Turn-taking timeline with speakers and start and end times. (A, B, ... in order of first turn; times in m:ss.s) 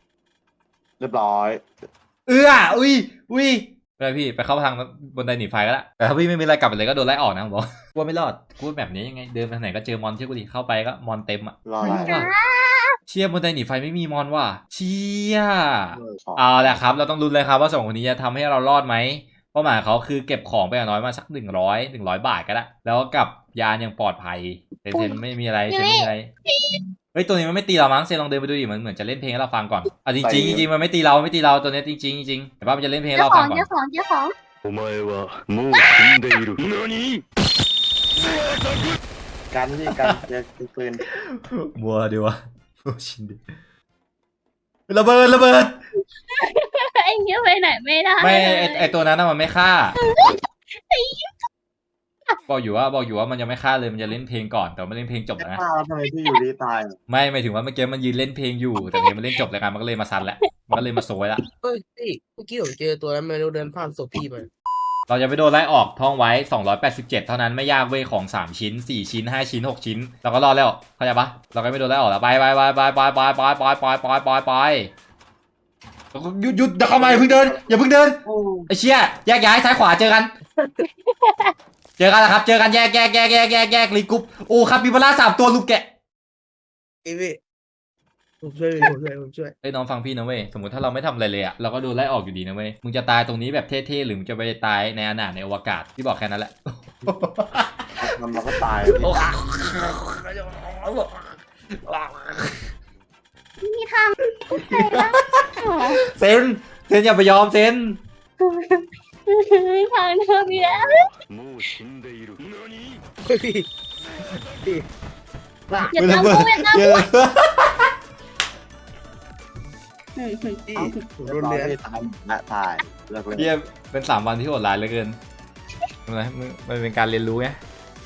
0:01.0-0:01.6 A
0:02.3-0:12.3 B
0:11.6-0:12.3 A
0:11.8-0:12.9 C
0:13.1-0:26.3 B
0:15.9-0:16.5 A
0:24.9-0:26.8 C
0:27.1-0:33.7 B
0:30.2-0:30.7 A
0:33.1-0:34.3 C
0:34.6-0:37.2 D
0:39.5-0:41.1 A
0:41.1-0:43.4 B
0:44.9-0:45.8 B
0:46.3-0:48.9 C
0:48.2-0:49.9 B
0:50.0-0:51.3 C
0:52.5-0:55.6 B
0:55.4-0:57.0 A
0:57.1-1:01.4 B
1:01.6-1:04.5 E
1:05.1-1:14.9 B
1:16.1-1:20.3 B
1:17.0-1:17.6 E
1:18.2-1:18.7 A
1:21.0-1:21.5 C
1:22.0-1:25.8 B
1:27.0-1:27.4 E
1:28.4-1:29.5 E
1:29.6-1:38.0 B
1:38.0-1:39.3 A
1:38.9-1:42.6 B
1:43.6-1:46.0 C
1:44.5-1:48.0 B
1:48.4-1:51.1 C
1:50.5-1:53.0 D
1:53.2-1:53.6 E
1:55.7-1:56.0 A
1:55.9-1:57.1 C
1:56.0-1:57.9 B
2:00.2-2:01.0 C
2:00.7-2:01.7 E
2:00.7-2:03.5 A
2:03.3-2:05.2 B
2:06.1-2:07.6 B